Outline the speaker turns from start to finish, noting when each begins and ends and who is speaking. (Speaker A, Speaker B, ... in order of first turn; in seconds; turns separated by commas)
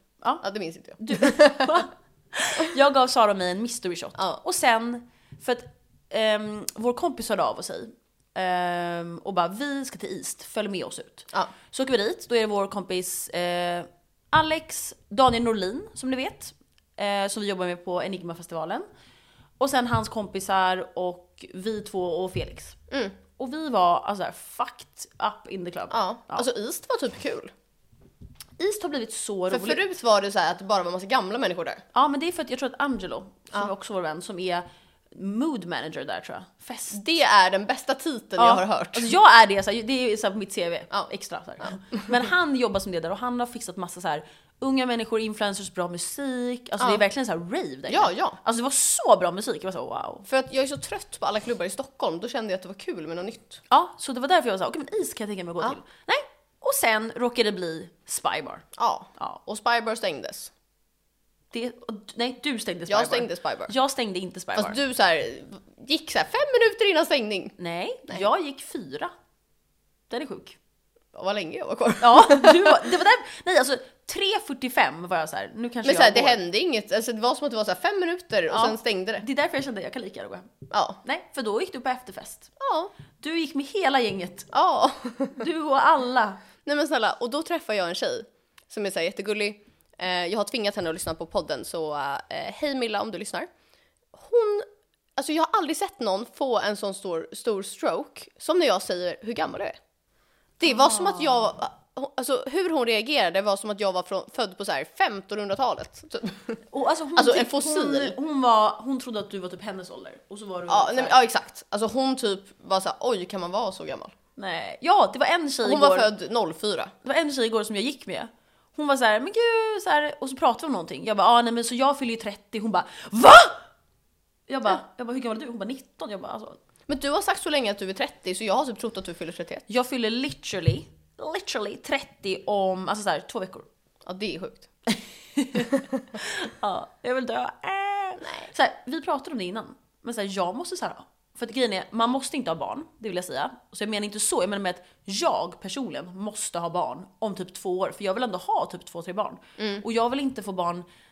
Speaker A: 0.4-1.8, Speaker B: 1.0-18.9, Speaker B: 19.6-22.8, Speaker A: 22.9-23.1, Speaker B: 23.4-26.5, Speaker A: 25.9-27.5, Speaker B: 28.6-29.8, Speaker A: 29.5-31.8, Speaker B: 31.9-37.0, Speaker A: 36.9-39.1, Speaker B: 38.4-50.2, Speaker A: 41.6-42.1, Speaker A: 47.9-48.4, Speaker A: 50.2-53.6, Speaker B: 53.7-58.6, Speaker A: 58.8-60.5, Speaker B: 61.5-64.8, Speaker A: 62.9-63.7, Speaker A: 64.5-67.5, Speaker B: 67.6-69.1, Speaker B: 70.1-70.6, Speaker A: 71.1-72.8, Speaker B: 72.0-76.4, Speaker A: 75.8-79.2, Speaker B: 78.5-80.5, Speaker A: 80.7-81.0, Speaker B: 81.0-82.5, Speaker A: 82.6-82.9, Speaker B: 83.2-84.5, Speaker A: 84.5-85.4, Speaker B: 85.4-86.4, Speaker A: 86.6-93.5, Speaker A: 94.1-99.8, Speaker A: 100.6-106.6, Speaker B: 100.7-101.5, Speaker B: 106.7-111.2, Speaker A: 107.1-108.1, Speaker A: 110.7-114.1, Speaker B: 114.4-116.1, Speaker A: 115.6-116.9, Speaker B: 117.0-123.6, Speaker B: 124.5-126.6, Speaker A: 126.9-129.7, Speaker B: 129.7-133.7, Speaker A: 134.1-134.7, Speaker B: 134.9-150.8, Speaker A: 138.2-138.5, Speaker A: 149.6-149.8